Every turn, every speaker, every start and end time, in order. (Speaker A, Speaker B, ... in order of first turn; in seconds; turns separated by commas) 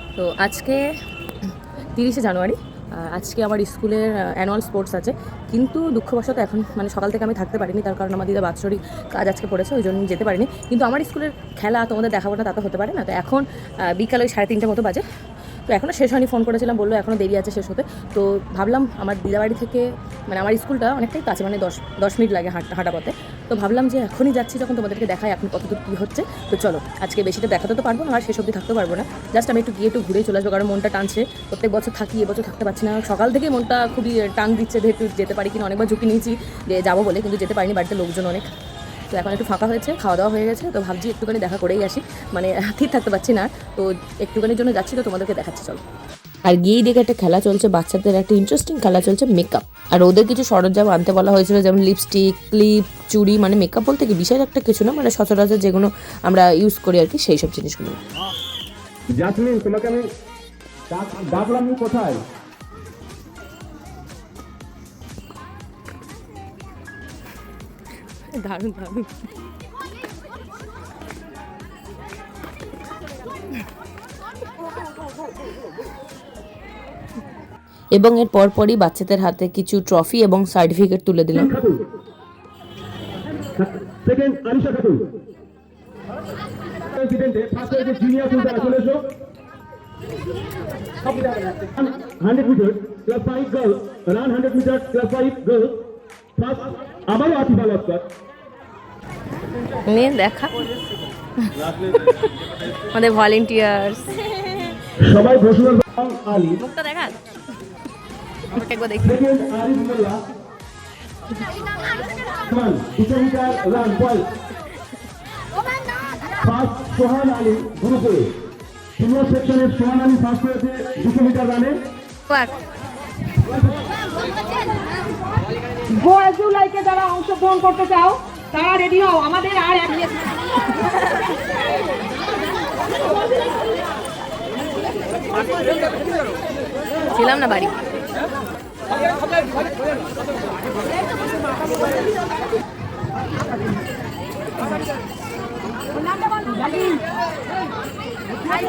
Speaker A: 0.2-0.8, Speaker A: 1.9-15.0, Speaker A: 15.7-38.5, Speaker A: 39.1-45.8, Speaker A: 46.5-58.0, Speaker B: 59.1-60.0, Speaker B: 60.9-62.2, Speaker A: 68.3-69.2, Speaker A: 78.0-81.5, Speaker B: 81.3-81.8, Speaker B: 83.5-85.0, Speaker B: 86.8-89.0, Speaker B: 91.0-95.8, Speaker B: 96.3-98.0, Speaker A: 99.8-100.5, Speaker B: 101.5-102.0, Speaker A: 102.9-104.7, Speaker B: 105.0-106.6, Speaker A: 106.6-107.1, Speaker A: 108.5-109.1, Speaker B: 109.0-110.2, Speaker B: 112.4-114.3, Speaker B: 116.3-118.3, Speaker B: 119.0-121.8, Speaker C: 125.9-130.3, Speaker A: 130.8-131.2, Speaker A: 137.1-137.8, Speaker C: 146.3-147.0